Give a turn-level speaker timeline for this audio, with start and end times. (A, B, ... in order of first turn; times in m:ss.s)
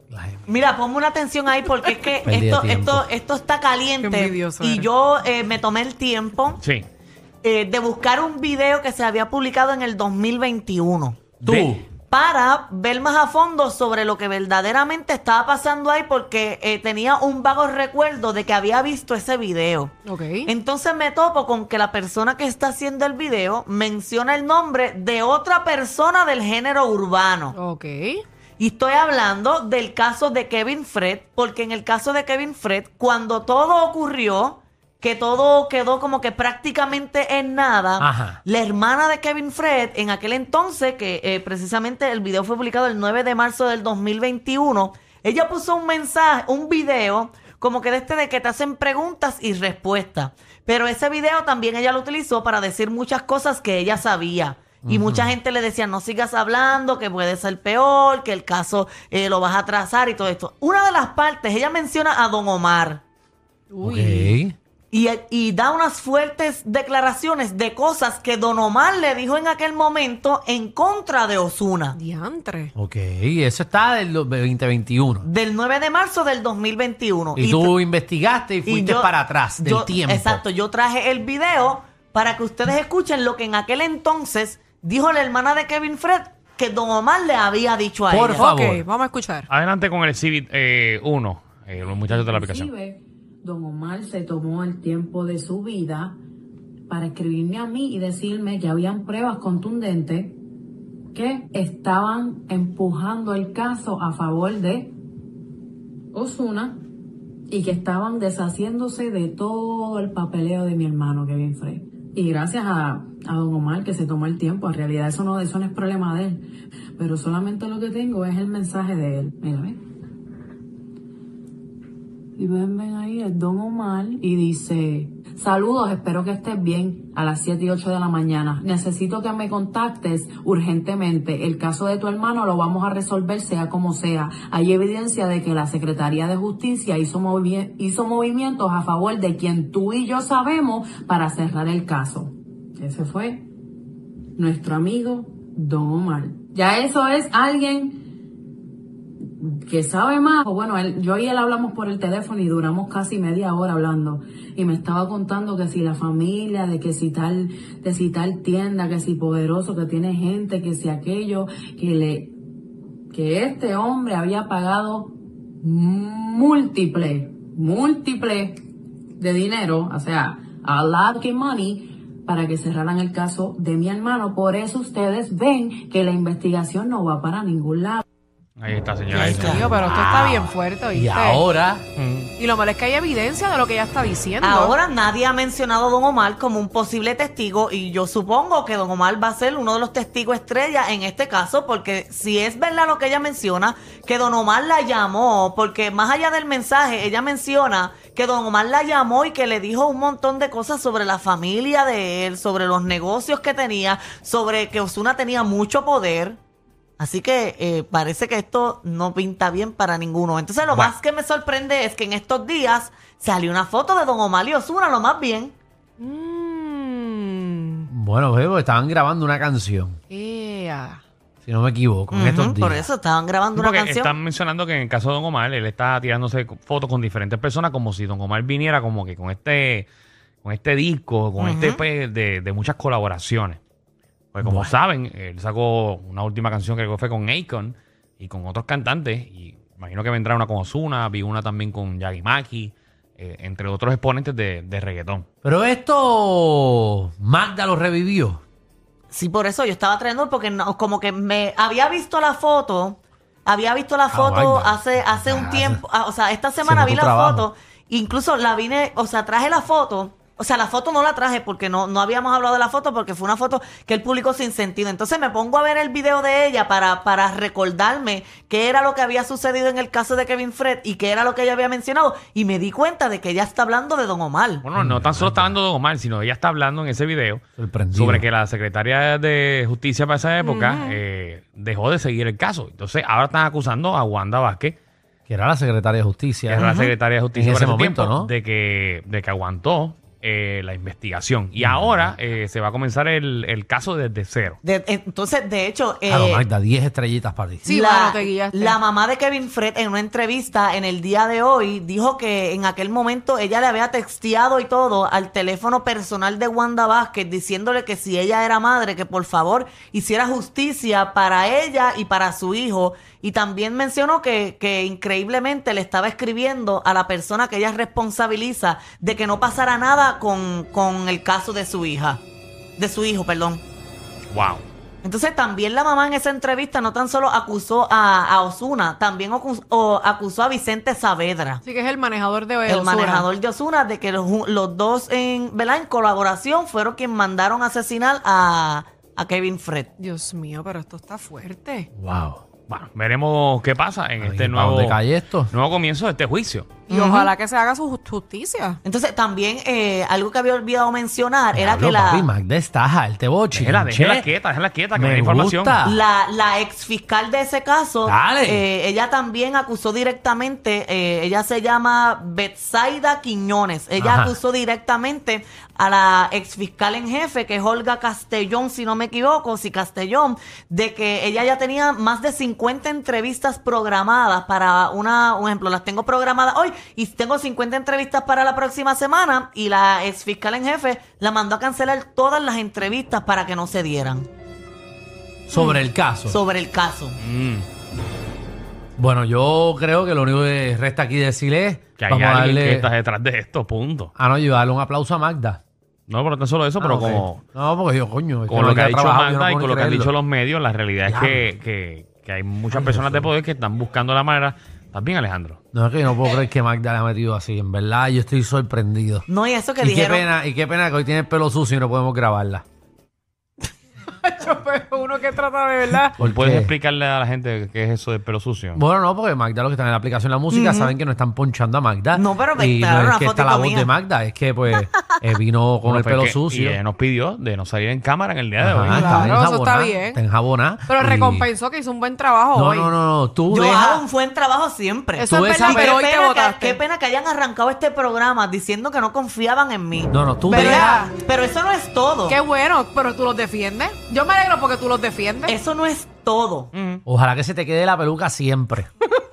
0:00.1-0:00.4 A
0:00.5-0:06.6 B
0:01.6-0:02.1 C
0:02.2-0:03.0 A
0:04.0-0:04.9 C
0:06.6-0:06.9 D
0:07.4-0:20.0 B
0:11.4-0:11.9 A
0:20.1-0:20.5 C
0:20.5-0:27.6 B
0:27.5-0:28.2 C
0:28.6-1:03.0 B
0:38.0-0:38.4 A
0:54.8-0:55.4 A
1:03.7-1:04.3 C
1:03.8-1:04.6 A
1:04.9-1:12.0 B
1:12.0-1:12.7 C
1:12.8-1:15.2 A
1:15.2-1:17.8 B
1:17.4-1:20.4 A
1:18.6-1:28.5 B
1:28.1-1:28.8 A
1:28.3-1:29.5 C
1:29.5-1:32.7 D
1:32.1-1:36.2 E
1:36.9-1:40.4 E
1:41.1-1:44.9 E
1:46.1-1:46.8 E
1:47.5-1:56.4 E
1:57.0-1:59.8 E
2:02.4-2:23.5 E
2:24.4-2:28.0 E
2:29.4-2:42.4 E
2:43.1-2:48.6 E
2:49.2-2:58.0 E
2:58.6-3:00.5 D
2:59.1-2:59.7 B
2:59.2-3:01.4 C
3:01.0-3:01.8 A
3:02.0-3:02.3 D
3:02.4-3:04.8 C
3:04.4-3:26.4 B
3:27.0-3:35.6 B
3:36.0-3:37.9 C
3:37.9-3:40.0 A
3:40.1-3:41.0 C
3:41.4-3:42.8 A
3:42.1-3:44.2 B
3:43.6-3:49.9 D
3:50.4-3:53.6 D
3:51.4-3:51.8 B
3:54.3-4:05.3 D
3:54.4-3:54.7 A
4:05.4-4:08.4 A
4:09.1-4:34.6 B
4:14.1-4:15.8 A
4:16.6-4:17.5 A
4:34.6-4:37.4 D
4:34.8-4:35.6 A
4:37.6-4:38.3 A
4:37.9-4:44.8 D
4:40.4-4:41.0 C
4:45.3-4:46.7 A
4:46.5-4:54.6 D
4:46.6-4:47.0 B
4:47.3-4:48.3 A
4:51.6-4:52.1 A
4:54.6-4:56.4 B
4:56.1-4:57.7 A
4:57.7-4:58.8 C
4:57.7-5:22.2 B
5:22.8-5:23.6 B
5:24.3-5:24.6 D
5:25.0-5:31.6 B
5:31.6-5:33.3 C
5:32.7-5:39.9 B
5:40.0-5:41.9 C
5:42.0-5:42.4 A
5:42.7-5:46.8 D
5:44.2-5:45.5 A
5:46.9-5:48.8 C
5:46.9-5:47.3 B
5:48.8-5:52.3 B
5:51.5-5:54.3 A
5:53.5-5:55.8 D
5:55.0-5:56.0 A
5:55.8-6:24.3 B
5:58.1-5:58.6 A
6:04.0-6:04.4 A
6:25.5-6:26.4 A
6:26.3-6:27.2 B
6:27.2-6:27.7 D
6:29.0-6:32.9 A
6:32.0-6:34.1 D
6:34.2-6:35.6 A
6:36.1-6:37.4 D
6:36.8-6:40.1 A
6:38.5-6:45.6 D
6:41.1-6:41.5 A
6:42.7-6:43.3 A
6:45.7-6:49.3 A
6:49.3-6:50.3 B
6:49.8-6:52.6 A
6:54.2-6:56.2 C
6:56.2-6:56.7 A
6:56.2-6:58.8 D
6:58.8-7:06.8 A
7:00.5-7:00.9 B
7:02.1-7:03.9 B
7:05.8-7:09.3 D
7:08.6-7:11.5 A
7:08.9-7:10.2 C
7:10.9-7:12.9 C
7:12.6-7:14.0 A
7:13.5-7:22.4 B
7:15.2-7:16.8 C
7:15.3-7:16.0 A
7:20.1-7:21.1 A
7:20.5-7:21.1 C
7:22.3-7:25.6 C
7:25.5-7:26.7 B
7:26.7-7:27.0 D
7:27.1-7:28.9 A